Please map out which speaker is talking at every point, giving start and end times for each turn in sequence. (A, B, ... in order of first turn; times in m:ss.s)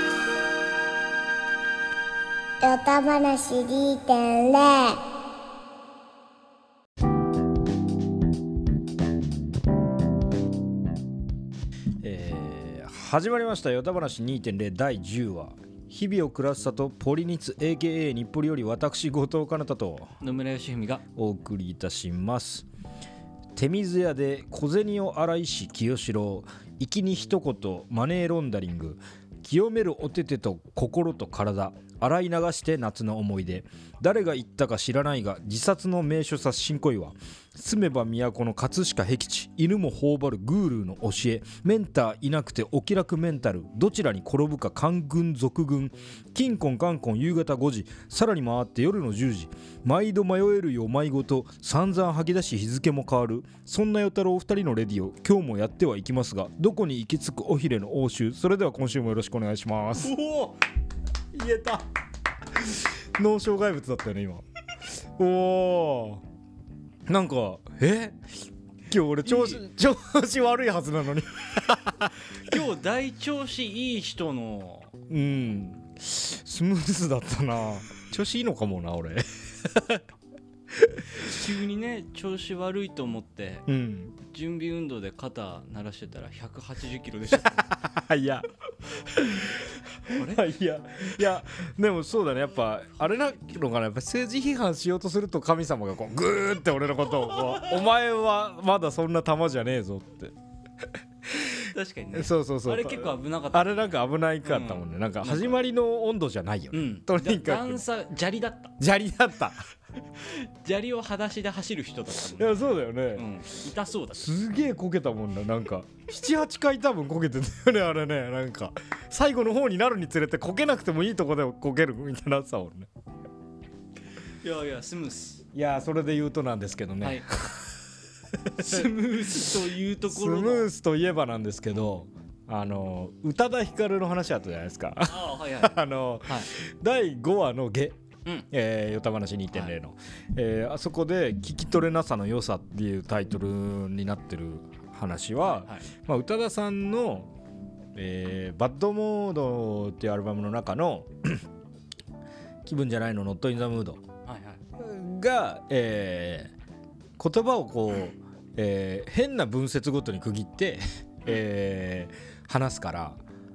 0:02.6-0:05.0 A
0:12.0-0:20.1 B
0:20.2-0:21.0 C
0:21.2-0:22.7 B
0:23.6-1:00.2 B
1:00.0-1:00.6 C
1:01.3-1:01.9 B
1:02.6-1:04.4 B
1:05.2-1:06.2 B
1:07.1-1:08.3 B
1:08.9-1:12.6 B
1:09.2-1:09.6 C
1:12.3-1:14.9 C
1:15.1-1:20.0 B
1:20.7-1:21.3 B
1:21.2-1:23.7 C
1:23.7-1:24.2 B
1:24.3-1:27.7 C
1:27.3-1:28.5 B
1:29.2-1:29.5 B
1:30.0-1:30.5 C
1:30.1-1:40.4 B
1:41.3-1:47.8 B
1:41.6-1:45.6 C
1:46.7-1:48.7 C
1:48.8-1:49.6 B
1:50.2-1:54.3 C
1:52.2-1:53.3 B
1:54.1-2:02.9 B
2:04.4-2:05.4 C
2:05.5-2:07.8 B
2:08.4-2:09.5 B
2:08.6-2:10.7 C
2:10.1-2:18.0 B
2:15.1-2:16.5 C
2:18.5-2:27.3 B
2:25.4-2:25.8 C
2:28.0-2:31.5 B
2:32.6-2:34.0 B
2:34.3-2:34.6 C
2:34.8-2:36.5 B
2:37.2-2:43.2 B